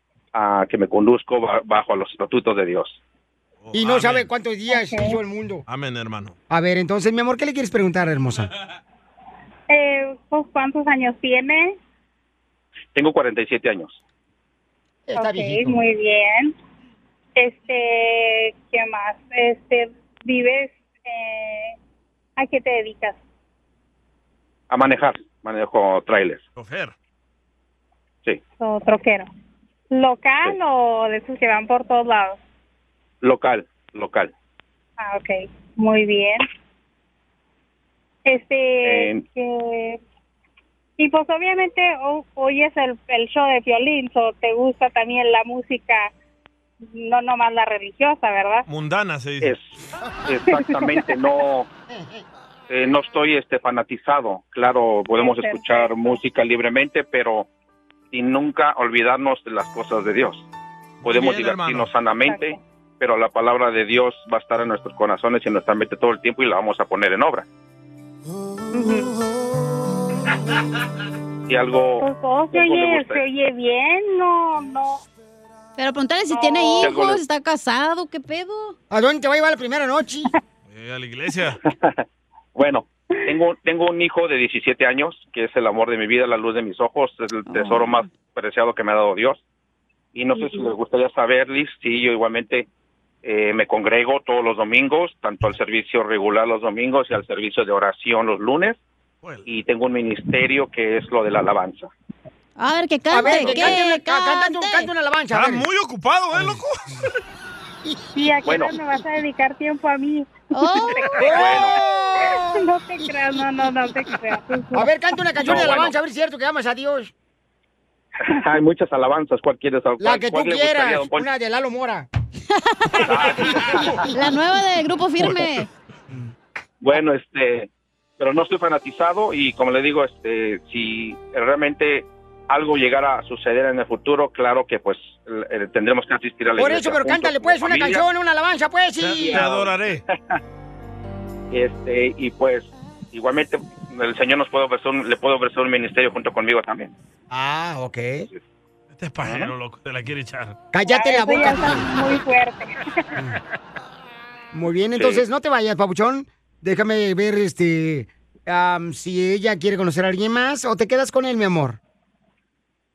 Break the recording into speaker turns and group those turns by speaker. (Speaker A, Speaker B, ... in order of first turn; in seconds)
Speaker A: 0.3-3.0, 12.9-14.0, 24.7-26.4, 33.2-34.3, 38.8-39.2, 49.4-51.7, 52.7-57.5, 58.1-60.5, 61.0-67.4, 71.5-73.2, 76.7-77.2, 81.7-82.0, 82.5-89.4, 90.1-92.7, 93.2-98.8, 99.5-101.9, 108.5-108.7, 111.3-111.7, 115.4-115.9, 118.2-121.2, 123.1-124.0, 126.8-138.0, 139.2-140.4, 141.5-146.9, 149.2-149.5, 154.9-155.2
Speaker B: 3.6-4.3, 5.7-6.3, 26.6-26.9, 48.7-49.5, 61.0-61.9, 80.7-81.6, 105.3-107.1, 139.0-140.0, 149.0-150.6
Speaker C: 3.7-5.6, 6.5-8.5, 15.1-15.8, 51.9-52.2, 78.9-80.3, 103.1-105.6, 111.2-112.5, 114.7-117.1, 120.0-122.1, 136.6-139.4, 147.3-148.3, 150.7-151.9, 154.5-161.8
Speaker D: 4.7-5.2, 9.7-11.8, 15.1-16.5, 17.4-21.7, 22.4-23.2, 28.6-29.3, 29.9-32.4, 35.0-36.4, 38.2-40.0, 41.0-46.1, 46.9-48.6, 55.2-56.0, 62.2-62.6, 68.7-69.1, 72.0-75.0, 108.1-111.2, 112.3-114.9, 150.9-152.7
Speaker E: 75.8-78.7, 87.5-88.1, 102.6-104.9, 110.5-111.1, 122.7-123.0, 124.1-125.7